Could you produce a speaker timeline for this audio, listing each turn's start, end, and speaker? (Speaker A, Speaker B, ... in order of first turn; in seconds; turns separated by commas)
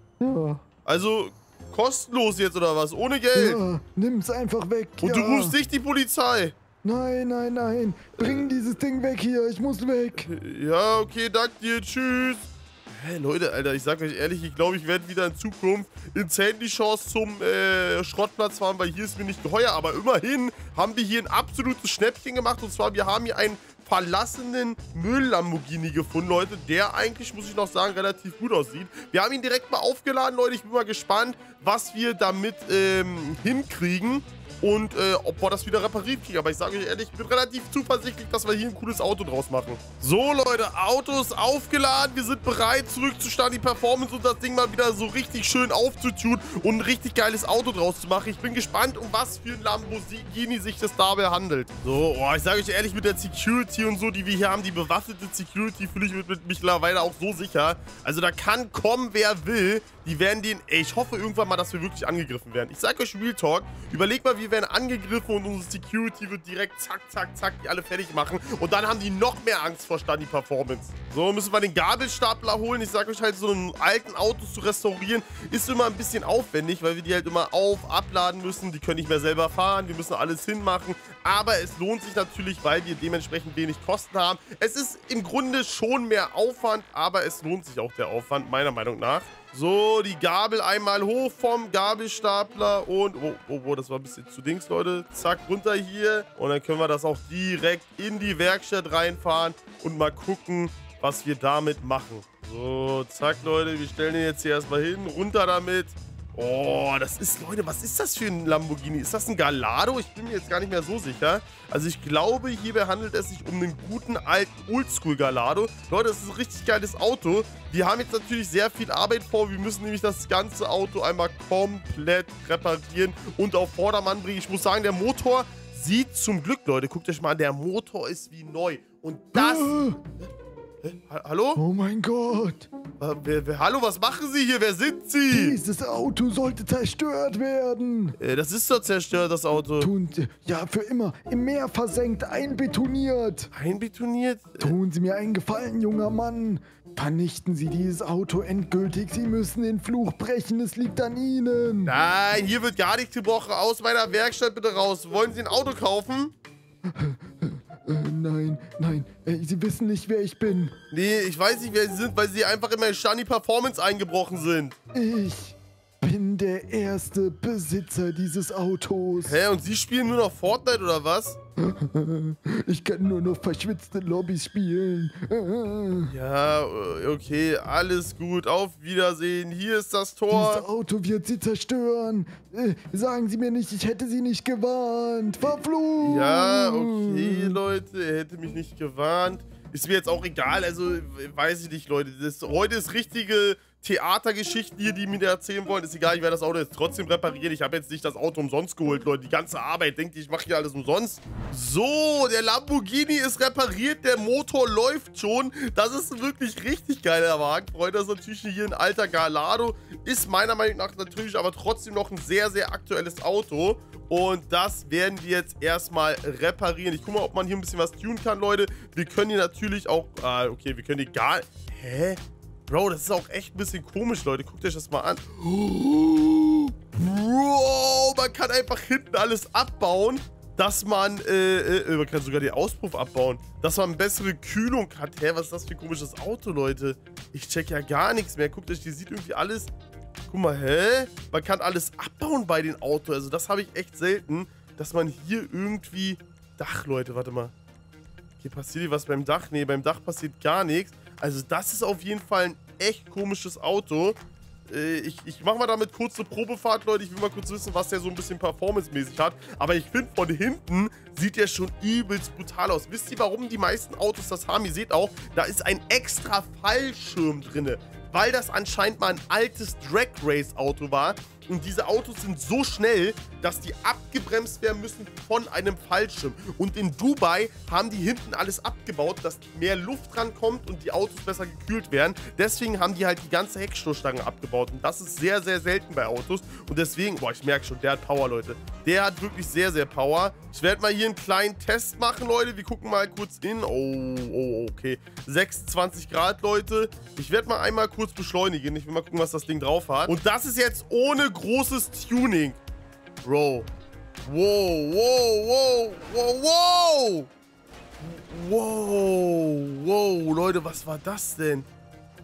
Speaker A: 0.2-0.6, Speaker B: 0.9-3.6, Speaker A: 3.3-5.6, Speaker B: 5.0-6.5, Speaker A: 6.8-10.3, Speaker B: 8.2-8.5, Speaker B: 10.1-130.3, Speaker A: 129.3-130.0, Speaker B: 130.8-131.6, Speaker A: 131.6-132.7, Speaker B: 133.0-135.6, Speaker A: 135.3-138.2, Speaker B: 138.2-139.9, Speaker A: 139.8-143.5, Speaker B: 143.5-144.7, Speaker A: 144.6-151.9, Speaker B: 151.9-156.3, Speaker A: 156.8-160.7, Speaker B: 160.9-164.8, Speaker A: 164.9-169.4, Speaker B: 169.2-171.4, Speaker A: 171.6-176.1, Speaker B: 176.1-180.7, Speaker A: 180.3-187.6, Speaker B: 186.0-239.7, Speaker B: 240.3-247.5, Speaker B: 248.4-254.2, Speaker B: 254.7-302.6, Speaker B: 303.2-303.7, Speaker B: 304.3-307.3, Speaker B: 308.0-311.7